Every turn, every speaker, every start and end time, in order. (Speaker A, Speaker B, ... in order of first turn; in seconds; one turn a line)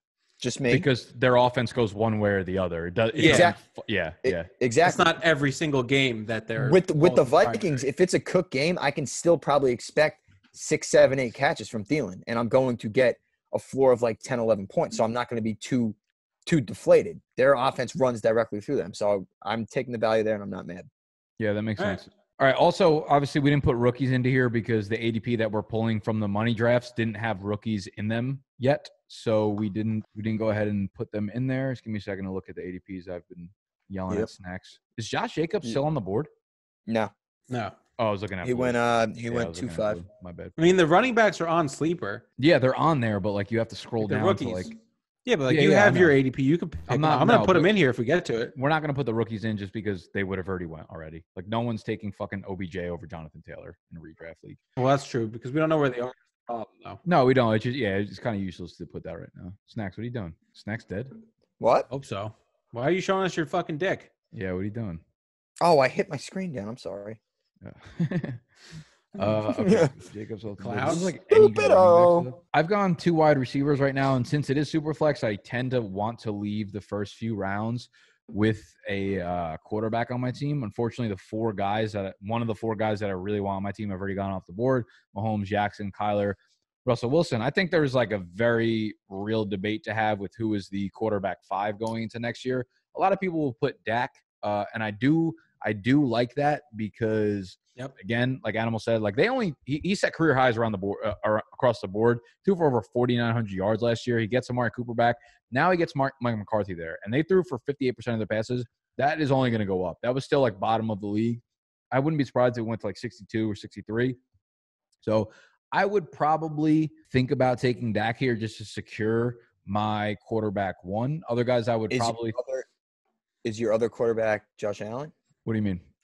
Speaker A: 0.4-0.9
Speaker B: 0.7-4.5
Speaker C: 3.1-3.5
Speaker A: 3.2-3.6
Speaker A: 4.2-5.2
Speaker C: 4.8-7.8
Speaker A: 6.6-20.9
Speaker B: 21.4-36.3
Speaker A: 36.9-37.1
Speaker C: 37.5-37.8
Speaker B: 38.0-40.5
Speaker A: 38.4-40.0
Speaker C: 40.6-42.2
Speaker B: 42.4-44.7
Speaker C: 44.0-44.7
Speaker C: 45.2-48.5
Speaker B: 45.5-46.1
Speaker B: 46.9-47.7
Speaker B: 48.5-54.6
Speaker C: 54.8-57.0
Speaker B: 57.0-61.1
Speaker A: 61.6-61.9
Speaker C: 61.9-64.1
Speaker B: 64.3-65.0
Speaker A: 65.6-67.2
Speaker B: 67.6-68.4
Speaker B: 69.1-114.2
Speaker A: 69.2-69.9
Speaker C: 70.6-71.1
Speaker A: 70.9-72.3
Speaker B: 115.0-122.4
Speaker A: 121.9-122.7
Speaker A: 123.4-125.1
Speaker B: 125.5-125.8